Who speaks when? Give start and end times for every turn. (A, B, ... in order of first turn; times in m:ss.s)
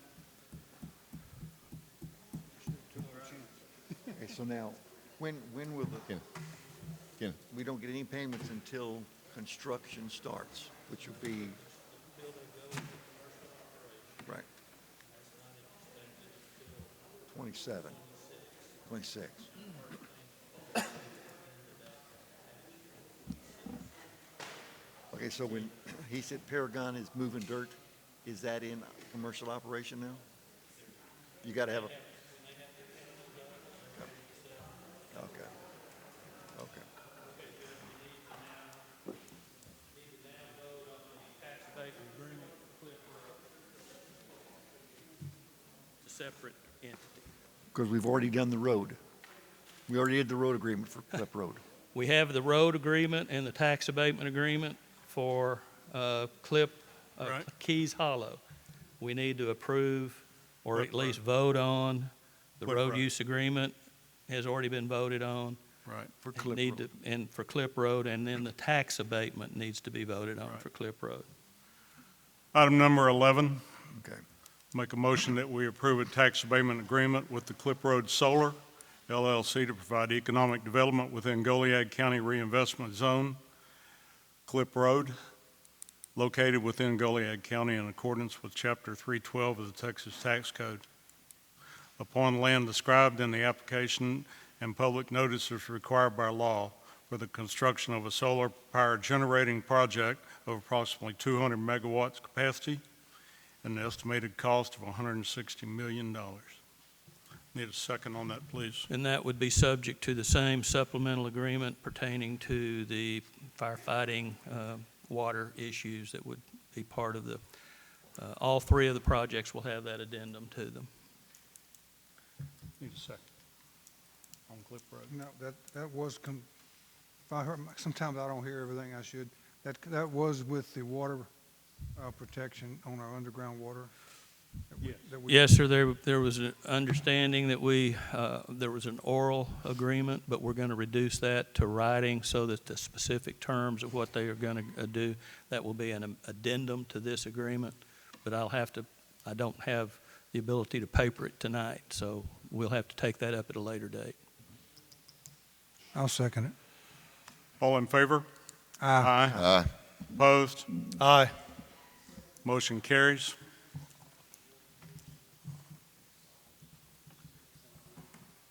0:02.6-0:04.1 A
0:04.1-0:06.2 B
0:07.2-0:11.6 B
0:12.0-0:14.2 C
0:15.5-0:16.8 C
0:17.3-0:18.0 B
0:18.8-0:19.5 B
0:21.4-0:22.0 C
0:25.1-0:30.2 B
0:31.4-0:32.0 B
0:31.9-0:34.4 C
0:35.1-0:35.5 B
0:36.5-0:36.9 B
0:37.2-0:38.8 C
0:39.9-0:43.3 C
0:46.0-0:47.0 C
0:47.7-0:49.0 B
0:49.9-0:51.6 B
0:51.9-0:58.4 C
0:57.2-0:57.5 D
0:59.0-1:03.8 C
1:00.7-1:01.2 D
1:02.6-1:03.0 D
1:04.3-1:05.6 C
1:05.8-1:06.3 D
1:06.3-1:06.8 B
1:06.3-1:11.3 C
1:12.5-1:13.6 D
1:13.9-1:14.2 B
1:14.7-1:23.4 D
1:24.5-1:25.2 D
1:26.1-1:30.8 D
1:32.0-1:42.8 D
1:43.6-1:46.6 D
1:47.5-1:48.9 D
1:48.9-1:57.4 C
1:58.2-2:00.9 C
2:02.8-2:03.2 D
2:04.5-2:05.1 D
2:05.1-2:06.5 A
2:07.3-2:11.3 A
2:11.9-2:13.9 A
2:14.7-2:15.5 A
2:14.8-2:15.1 D
2:15.2-2:34.2 C
2:35.9-2:36.5 A
2:37.6-2:38.3 D
2:38.8-2:39.4 A
2:39.0-2:40.7 D
2:41.0-2:41.3 A
2:42.4-2:43.4 D